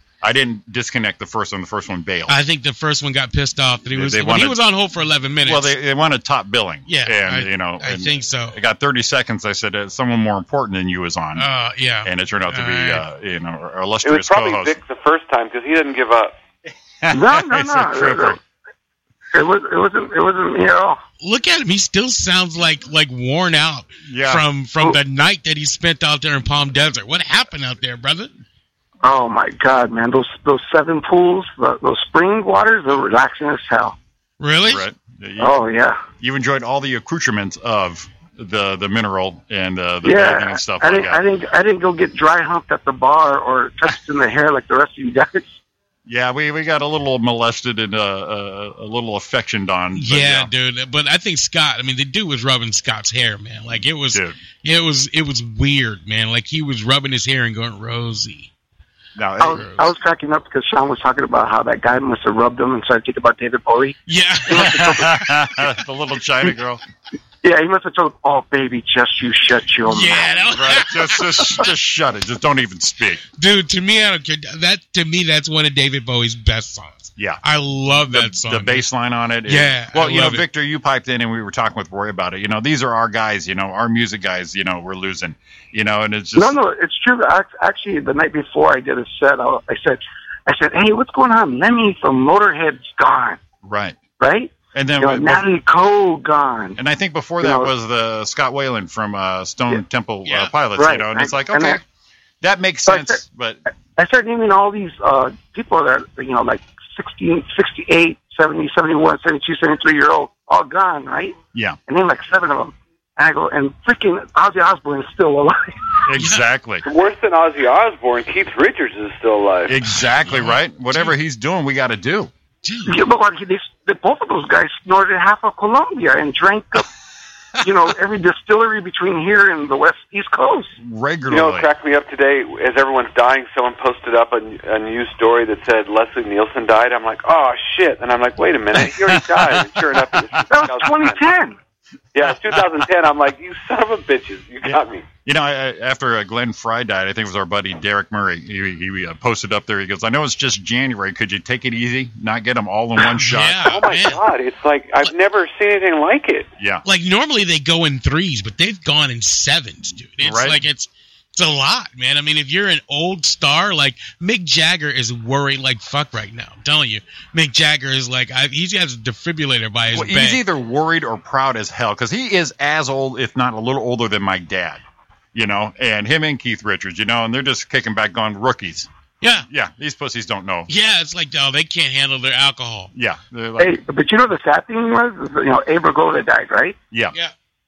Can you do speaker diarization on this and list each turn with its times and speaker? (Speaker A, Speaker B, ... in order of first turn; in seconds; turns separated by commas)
Speaker A: 0.2-2.3, Speaker B: 2.3-5.7, Speaker A: 3.9-4.6, Speaker A: 5.4-11.5, Speaker B: 6.9-8.6, Speaker B: 11.3-13.0, Speaker A: 12.0-14.8, Speaker C: 14.0-16.4, Speaker A: 17.0-18.4, Speaker D: 17.1-18.4, Speaker D: 19.3-21.0, Speaker B: 21.2-28.3, Speaker A: 24.1-24.4, Speaker D: 29.0-34.0, Speaker B: 34.4-34.8, Speaker A: 34.6-35.5, Speaker D: 35.4-36.0, Speaker A: 36.2-41.2, Speaker D: 40.0-45.5, Speaker A: 46.0-50.5, Speaker B: 49.9-58.5, Speaker A: 59.1-59.9, Speaker D: 59.4-64.0, Speaker B: 64.1-65.0, Speaker D: 64.5-65.2, Speaker A: 64.5-66.8, Speaker D: 67.4-70.5, Speaker B: 69.8-71.7, Speaker A: 70.5-73.2, Speaker B: 73.4-78.8, Speaker A: 77.2-77.4, Speaker A: 78.0-86.5, Speaker B: 79.5-80.4, Speaker D: 86.3-93.4, Speaker A: 93.6-94.0, Speaker D: 94.2-96.8, Speaker A: 94.7-95.4, Speaker A: 96.8-101.8, Speaker D: 97.4-97.7, Speaker B: 100.2-100.5, Speaker D: 100.7-101.8, Speaker A: 102.4-103.6, Speaker D: 102.9-103.2, Speaker D: 104.0-111.4, Speaker D: 111.9-115.9, Speaker A: 116.0-116.8, Speaker B: 116.2-116.4, Speaker C: 116.8-119.8, Speaker A: 119.7-122.3, Speaker B: 120.2-121.1, Speaker B: 122.6-123.0, Speaker D: 122.8-126.8, Speaker D: 127.6-130.7, Speaker A: 130.8-131.7, Speaker C: 131.3-141.2, Speaker A: 138.7-140.7, Speaker D: 140.5-141.6, Speaker C: 142.1-145.0, Speaker A: 142.2-142.8, Speaker A: 144.6-153.8, Speaker B: 153.0-154.2, Speaker C: 153.6-156.5, Speaker A: 156.6-156.8, Speaker B: 156.8-170.4, Speaker A: 160.2-160.6, Speaker A: 169.9-174.8, Speaker A: 175.3-178.9, Speaker B: 179.2-179.5, Speaker A: 179.5-180.7, Speaker B: 180.7-182.9, Speaker A: 182.9-183.8, Speaker D: 183.6-186.8